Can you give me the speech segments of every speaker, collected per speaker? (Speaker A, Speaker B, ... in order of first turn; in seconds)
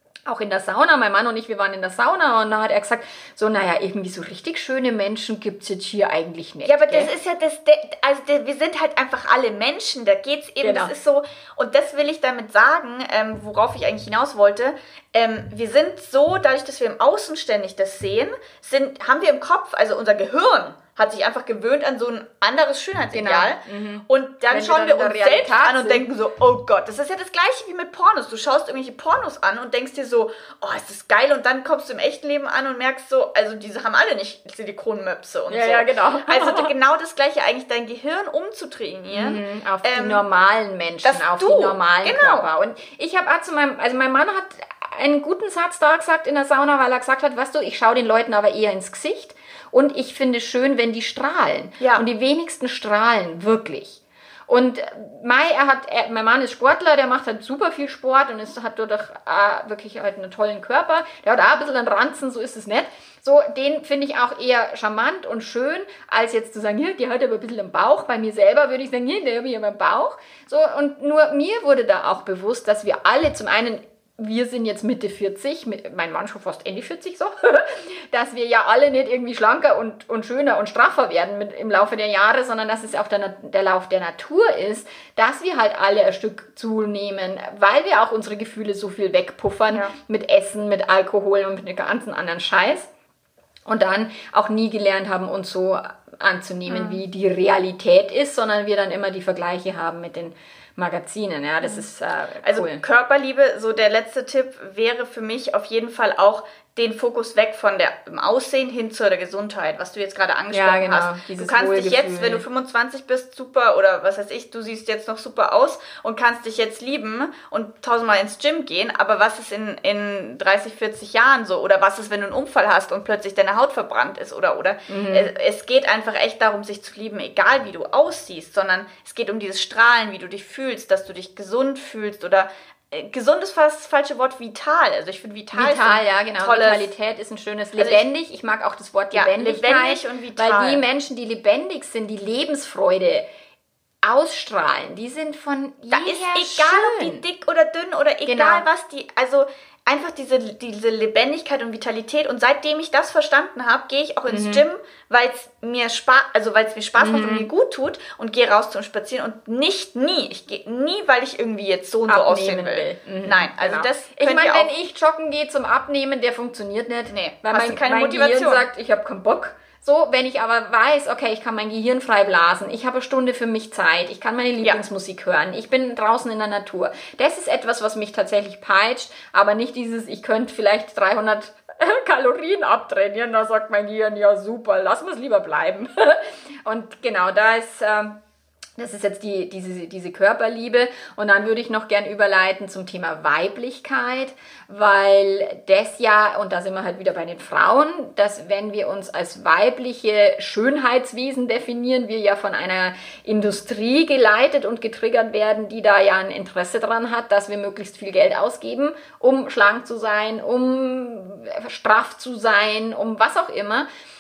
Speaker A: 0.2-7.1, 10.6-10.9, 23.1-26.1, 35.5-36.7, 39.1-92.9, 93.7-102.8, 110.5-112.4, 124.9-125.3, 135.5-143.2, 144.0-147.2, 148.2-148.6, 154.3-154.6, 157.0-157.5, 162.1-188.2, 188.8-213.9
Speaker B: 6.6-40.2, 41.0-42.5, 51.8-52.0, 96.7-97.0, 102.4-136.9, 137.8-138.1, 139.1-140.8, 145.9-164.7, 167.1-168.7